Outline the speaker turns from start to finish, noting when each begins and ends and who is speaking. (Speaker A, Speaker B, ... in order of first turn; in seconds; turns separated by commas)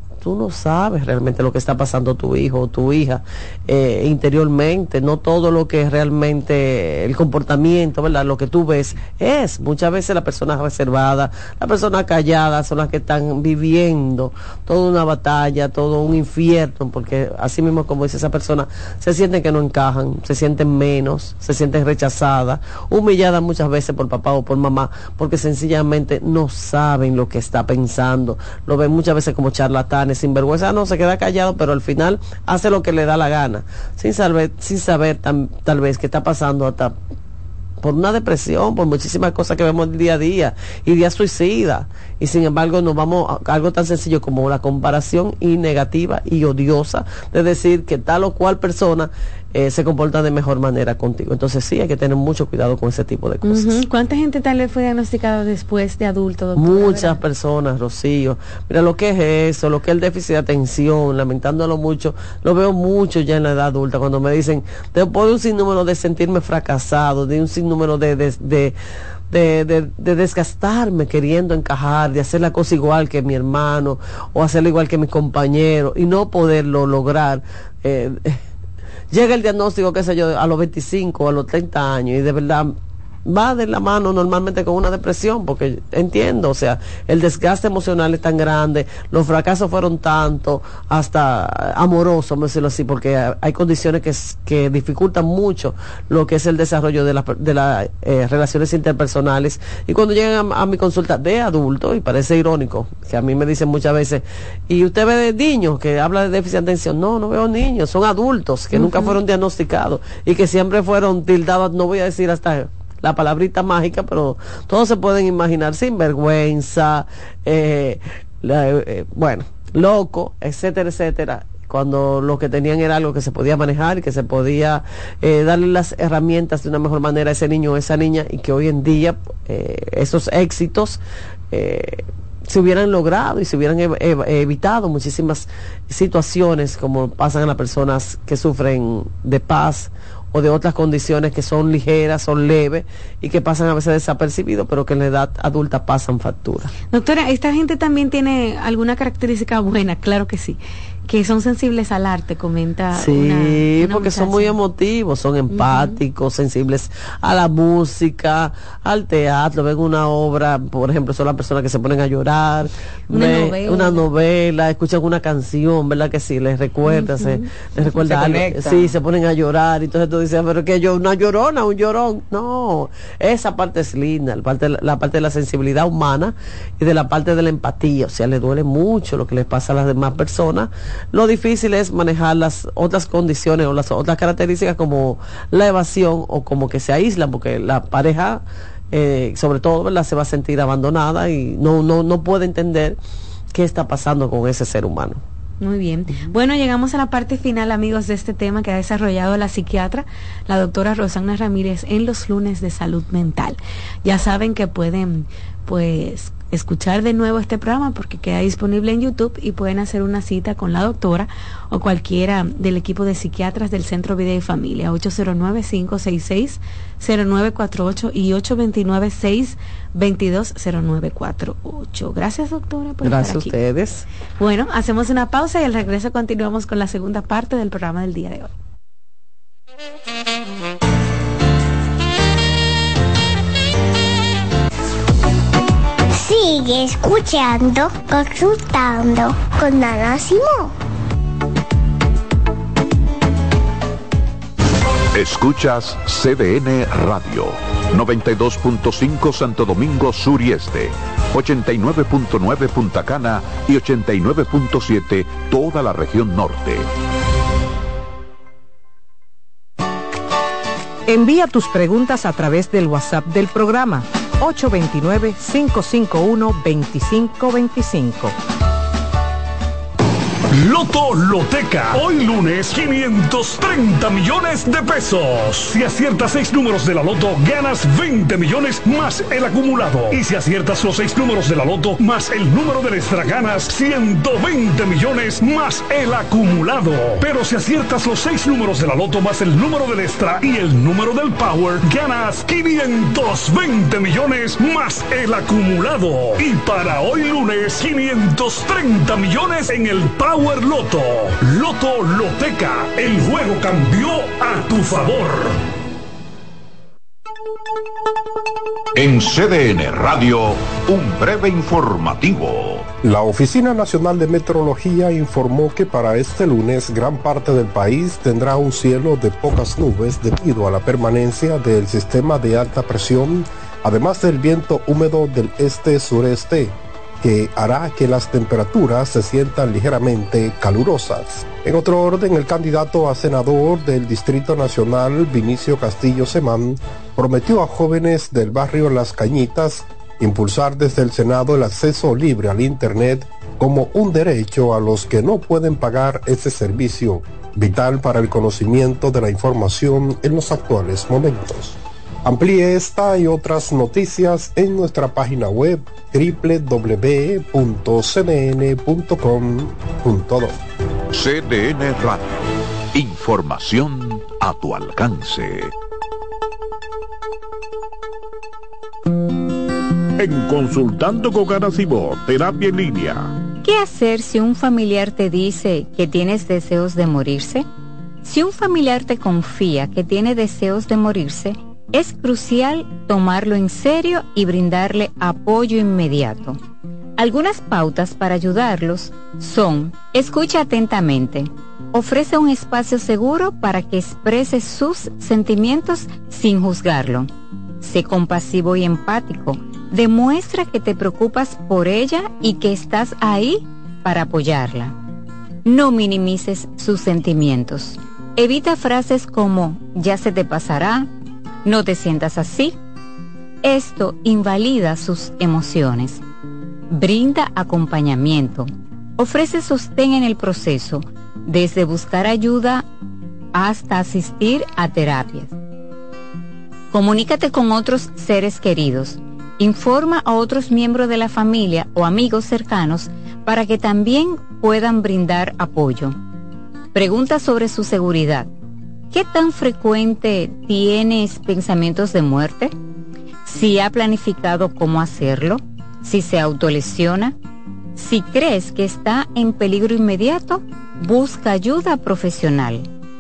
Speaker A: 0.2-37.0, Speaker A: 37.8-53.8, Speaker B: 53.4-57.2, Speaker A: 56.5-68.8, Speaker A: 69.3-78.4, Speaker A: 79.1-82.7, Speaker A: 83.3-131.0, Speaker B: 108.7-109.2, Speaker A: 131.5-146.7, Speaker B: 146.9-154.6, Speaker A: 152.9-193.0, Speaker B: 155.5-156.0, Speaker B: 163.1-164.0, Speaker B: 166.8-168.5, Speaker A: 193.5-195.2, Speaker B: 195.6-223.6, Speaker A: 223.0-224.1, Speaker B: 224.4-228.5, Speaker C: 236.1-240.7, Speaker D: 245.1-256.9, Speaker E: 261.1-268.3, Speaker F: 270.5-305.6, Speaker D: 308.9-312.9, Speaker G: 313.0-360.6, Speaker D: 361.1-365.7, Speaker H: 370.2-373.3, Speaker I: 373.6-377.6, Speaker I: 378.2-386.6, Speaker I: 387.2-397.3, Speaker I: 397.8-404.9, Speaker I: 405.6-411.1, Speaker I: 411.6-412.8, Speaker I: 413.6-416.2, Speaker I: 416.9-422.8, Speaker I: 423.5-425.6, Speaker I: 426.9-436.2, Speaker I: 436.9-438.5, Speaker I: 439.1-442.7, Speaker I: 443.4-447.3, Speaker I: 447.9-452.9